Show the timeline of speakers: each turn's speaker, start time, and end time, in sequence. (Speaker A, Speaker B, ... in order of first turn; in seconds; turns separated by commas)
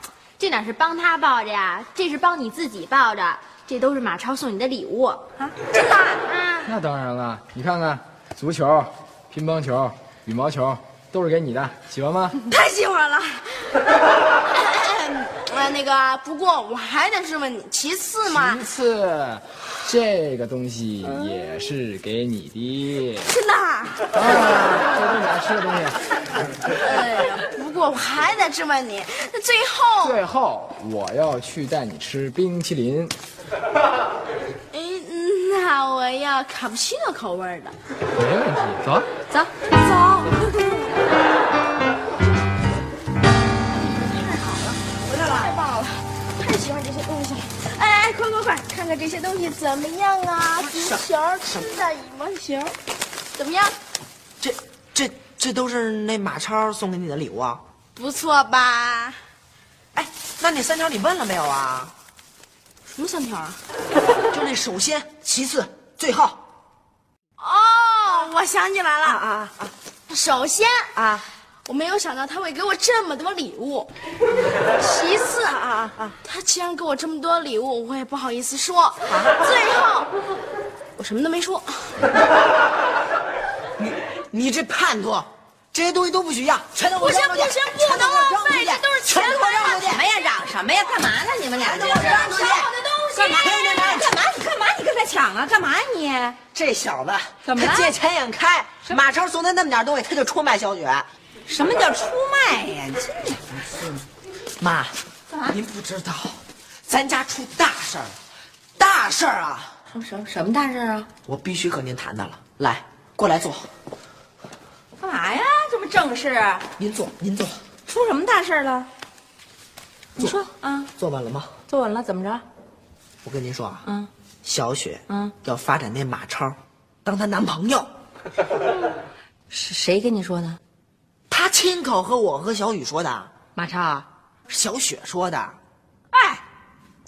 Speaker A: 0.4-5.3, Speaker B: 5.6-6.7, Speaker C: 6.7-12.4, Speaker B: 12.5-13.8, Speaker B: 14.4-18.6, Speaker C: 18.3-23.3, Speaker B: 23.2-24.1, Speaker C: 24.1-26.0, Speaker B: 26.8-30.2, Speaker C: 30.0-33.1, Speaker B: 34.7-37.8, Speaker C: 38.1-39.1, Speaker B: 39.6-41.2, Speaker B: 43.7-52.8, Speaker D: 45.0-45.5, Speaker D: 50.6-51.6, Speaker B: 53.4-53.7, Speaker D: 54.4-57.6, Speaker B: 58.0-59.2, Speaker D: 59.9-61.9, Speaker B: 62.9-63.6, Speaker D: 64.3-66.4, Speaker B: 67.4-69.3, Speaker D: 69.1-69.7, Speaker B: 70.1-71.0, Speaker B: 71.6-73.9, Speaker B: 74.8-80.1, Speaker D: 79.1-79.5, Speaker B: 81.0-82.0, Speaker D: 83.8-90.1, Speaker B: 86.9-88.5, Speaker E: 88.0-96.4, Speaker D: 91.6-94.1, Speaker D: 96.5-101.1, Speaker E: 97.5-97.9, Speaker E: 101.5-104.0, Speaker D: 104.6-105.0, Speaker E: 105.3-105.6, Speaker D: 105.5-108.2, Speaker D: 108.8-109.7, Speaker E: 109.9-111.1, Speaker D: 111.2-113.7, Speaker E: 115.0-116.6, Speaker D: 116.8-117.6, Speaker E: 117.9-118.9, Speaker E: 120.2-120.9, Speaker D: 121.0-121.5, Speaker E: 121.7-122.4, Speaker D: 123.2-123.8, Speaker D: 124.4-127.9, Speaker E: 129.5-130.6, Speaker D: 131.3-133.3, Speaker E: 133.6-134.1, Speaker D: 134.5-135.6, Speaker E: 136.1-136.4